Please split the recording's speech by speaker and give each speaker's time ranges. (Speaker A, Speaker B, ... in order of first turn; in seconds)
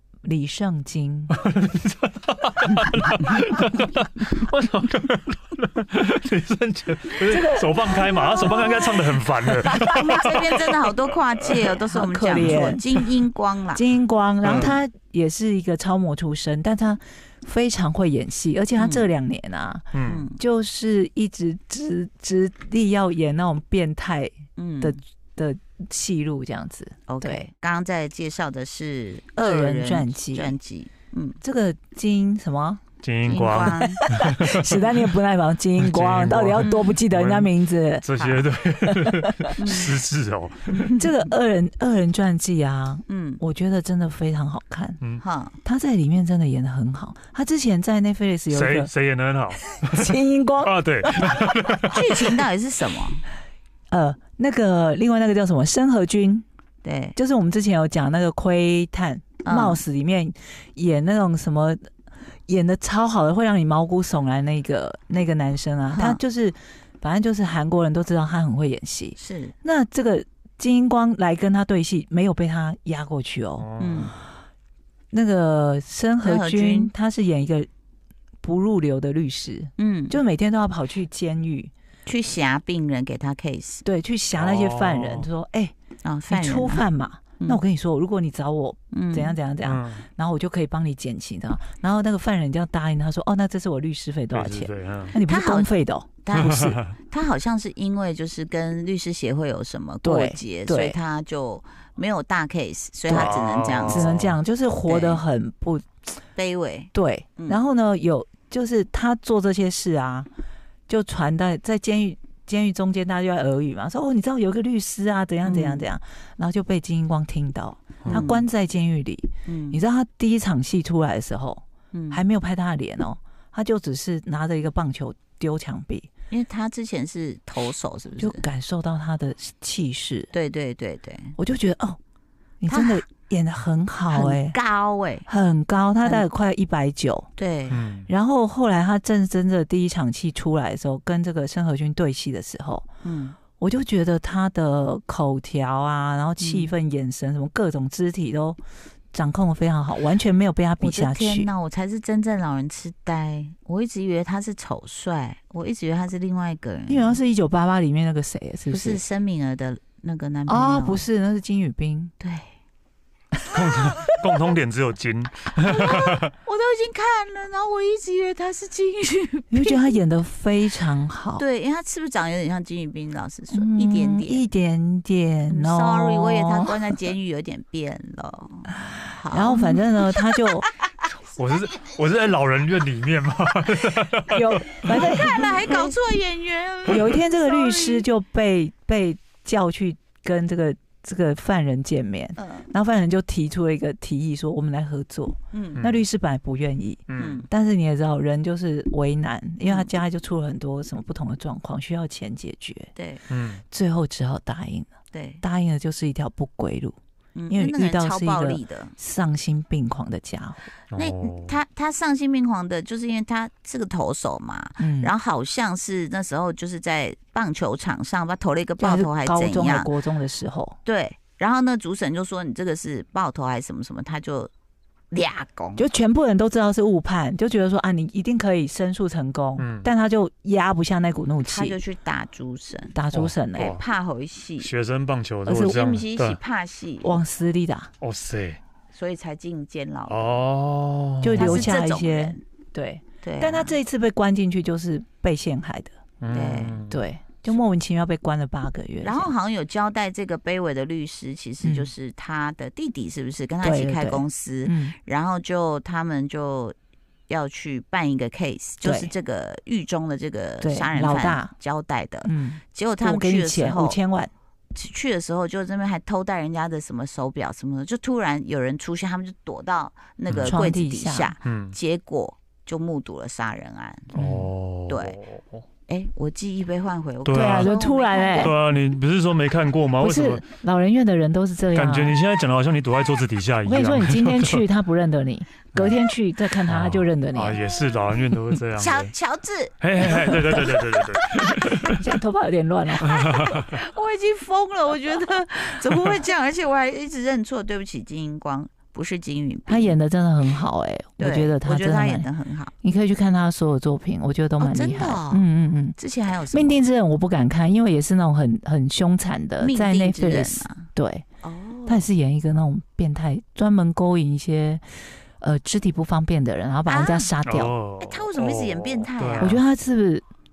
Speaker A: 0.2-1.3, 7.2-10.1, 11.9-12.8, 13.7-27.5, 29.4-30.5, 31.4-32.8, 33.4-38.1, 38.9-39.5, 41.0-45.0, 45.6-48.9, 49.8-51.4, 53.9-56.4, 57.2-61.8, 62.5-73.7, 75.1-77.7, 78.4-81.7, 83.8-85.7, 86.3-96.8, 100.0-101.0, 103.1-106.0, 106.9-110.3, 110.9-126.1, 128.2-130.3, 131.4-132.0, 132.6-134.6, 135.3-137.3, 138.1-142.9, 143.6-148.6, 149.1-151.5, 156.9-159.0, 160.5-162.1, 169.5-171.4, 173.5-176.8, 179.3-180.7, 184.3-185.9, 186.9-202.9, 203.7-204.9, 205.4-207.0, 207.5-210.7, 214.8-215.1, 218.8-220.8, 225.8-231.8, 232.9-233.8, 235.5-235.8, 237.0-237.9, 241.2-245.9, 246.9-249.3, 251.6-251.9, 253.6-254.9, 258.8-259.1, 260.6-261.5, 262.2-264.3, 270.4-271.4, 274.1-274.5, 277.3-278.5, 280.0-282.2, 283.6-287.6, 290.0-290.6, 291.9-293.4, 299.7-302.3, 302.8-306.0, 306.5-311.2, 311.9-314.8, 315.4-317.8, 319.4-320.2
Speaker B: 1.3-10.7, 11.4-11.8, 12.3-12.8, 14.4-14.8, 19.9-20.2, 33.0-35.0, 35.8-40.9, 48.5-52.0, 73.6-74.1, 84.3-85.3, 89.6-90.1, 94.3-95.2, 96.3-96.9, 103.1-104.4, 137.7-138.1, 163.5-166.3, 181.4-185.6, 195.8-196.0, 197.1-197.4, 203.3-203.6, 210.9-211.6, 229.6-229.9, 233.1-233.8, 234.6-236.4, 238.0-238.6, 240.1-241.7, 246.2-247.0, 270.3-270.6, 271.4-271.8, 274.1-275.6, 277.2-277.8, 278.4-280.5, 281.8-284.6, 286.6-289.1, 289.8-292.0, 293.0-293.8, 317.4-319.6
Speaker C: 9.9-13.8, 18.8-19.1, 20.0-20.4, 24.6-25.0, 27.1-31.4, 33.2-34.1, 36.6-37.0, 39.6-39.9, 40.7-41.0, 43.1-43.4, 45.2-45.6, 51.9-53.2, 56.8-57.2, 59.4-59.8, 65.9-66.2, 69.2-69.5, 73.8-74.1, 76.2-76.9, 79.8-80.2, 82.1-83.8, 86.0-86.9, 88.9-89.4, 95.2-95.7, 96.2-96.6, 97.1-104.1, 104.9-105.2, 106.3-107.6, 115.4-115.9, 118.1-118.5, 119.5-119.8, 121.9-122.2, 126.3-128.4, 130.3-131.4, 132.7-133.0, 134.1-135.3, 137.4-137.8, 143.0-143.4, 146.4-146.7, 150.8-157.2, 158.7-161.0, 162.2-162.5, 165.6-170.0, 171.4-174.5, 175.5-180.1, 184.9-188.1, 192.4-192.7, 195.5-195.9, 197.2-197.5, 199.6-199.9, 202.9-203.2, 205.1-205.4, 207.4-208.9, 211.0-219.9, 220.8-224.5, 225.1-225.9, 231.4-233.0, 233.5-234.7, 235.5-237.2, 238.9-240.4, 241.4-242.4, 243.2-243.8, 246.3-246.8, 249.0-256.8, 257.3-264.0, 264.7-274.1, 274.9-275.2, 275.9-278.6, 288.8-289.8, 293.1-300.0, 301.2-302.7, 304.6-306.8, 309.6-310.9, 311.4-312.1, 316.9-317.3, 318.0-319.6